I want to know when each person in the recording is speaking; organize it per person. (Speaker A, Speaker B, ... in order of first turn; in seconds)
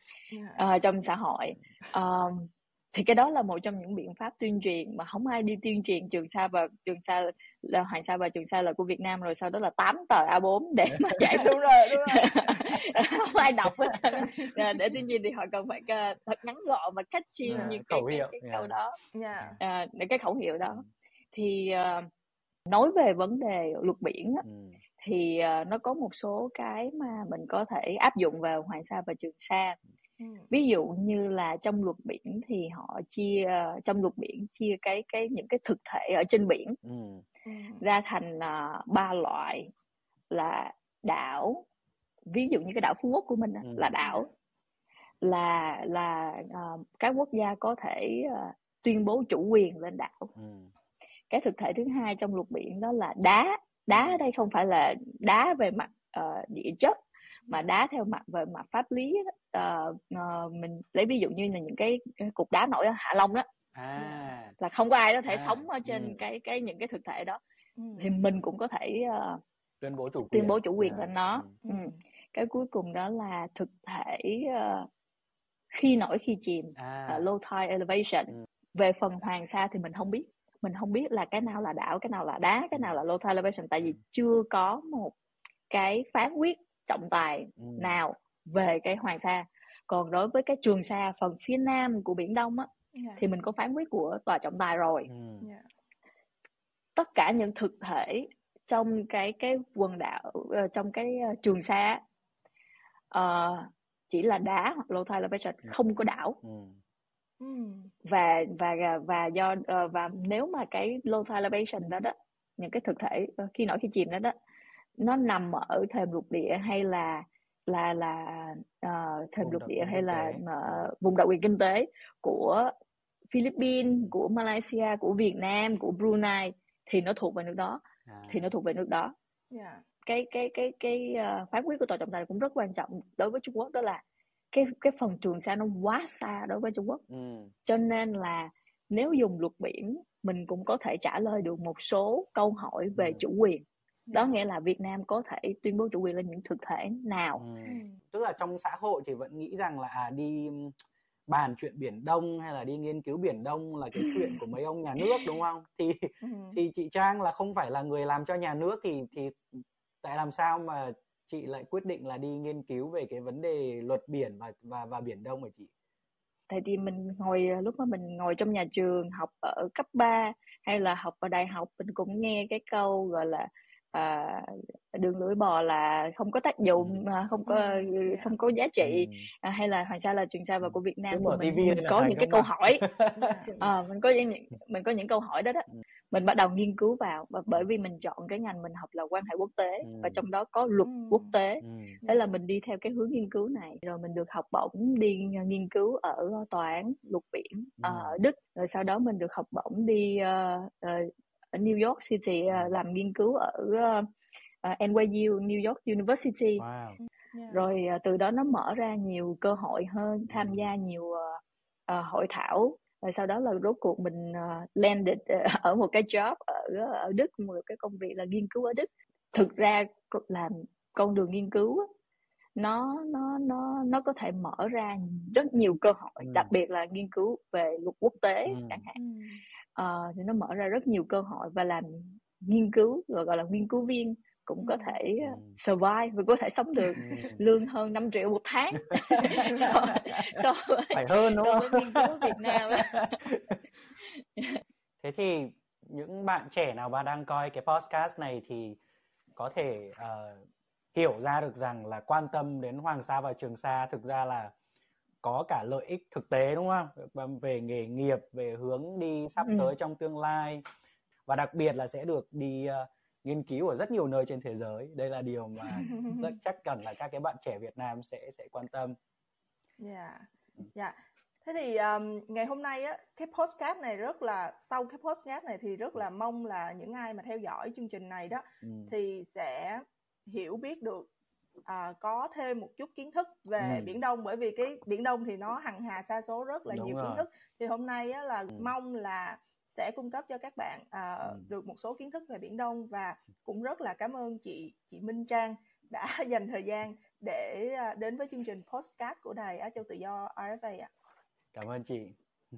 Speaker A: 0.3-0.6, 11.3-12.6, 17.5-17.8, 19.1-19.6, 30.2-30.5, 37.5-37.8, 44.0-44.2, 63.9-64.3, 67.8-68.2, 71.6-71.9, 92.9-93.2, 107.4-107.9, 129.5-129.8, 144.1-144.4, 147.7-147.9, 156.2-156.6, 177.5-178.4, 183.2-183.6, 190.8-191.3, 207.0-207.7, 228.9-229.4, 234.6-235.0, 265.7-266.3, 269.8-281.1, 281.6-300.9
Speaker B: 0.6-11.5, 12.1-19.0, 19.6-22.1, 22.7-24.4, 25.0-29.8, 30.5-36.8, 37.8-39.7, 40.3-41.6, 42.3-44.3, 45.2-50.3, 51.3-57.0, 57.5-63.5, 64.6-67.4, 68.0-69.4, 70.3-74.9, 75.7-85.1, 85.7-95.1, 97.0-102.0, 103.1-106.4, 108.0-114.3, 115.0-122.7, 123.3-129.1, 130.1-134.0, 134.5-137.0, 137.6-147.4, 166.5-182.8, 183.6-204.0, 204.6-206.6, 207.5-211.4, 211.9-221.8, 222.6-228.9, 229.7-243.2, 244.2-244.6, 259.4-259.7
Speaker C: 11.1-11.3, 17.4-18.7, 24.4-24.8, 36.8-37.2, 43.6-43.9, 50.4-50.7, 53.9-54.3, 63.7-64.5, 65.3-66.2, 69.8-71.5, 76.8-77.3, 87.6-88.0, 95.1-95.5, 106.4-106.8, 119.4-120.9, 128.1-128.5, 137.1-137.5, 142.9-143.2, 147.3-150.7, 151.3-159.4, 160.0-165.7, 176.8-177.0, 178.8-179.2, 180.6-183.7, 189.8-190.2, 191.6-192.0, 197.8-198.2, 202.5-202.8, 206.6-207.0, 210.3-210.7, 226.2-226.5, 228.4-228.8, 235.2-235.6, 236.9-237.4, 239.1-240.3, 240.9-243.6, 245.0-248.8, 249.3-250.4, 250.9-254.5, 255.2-260.6, 261.3-268.9, 278.6-278.9, 283.6-284.0, 286.7-287.2, 301.5-302.1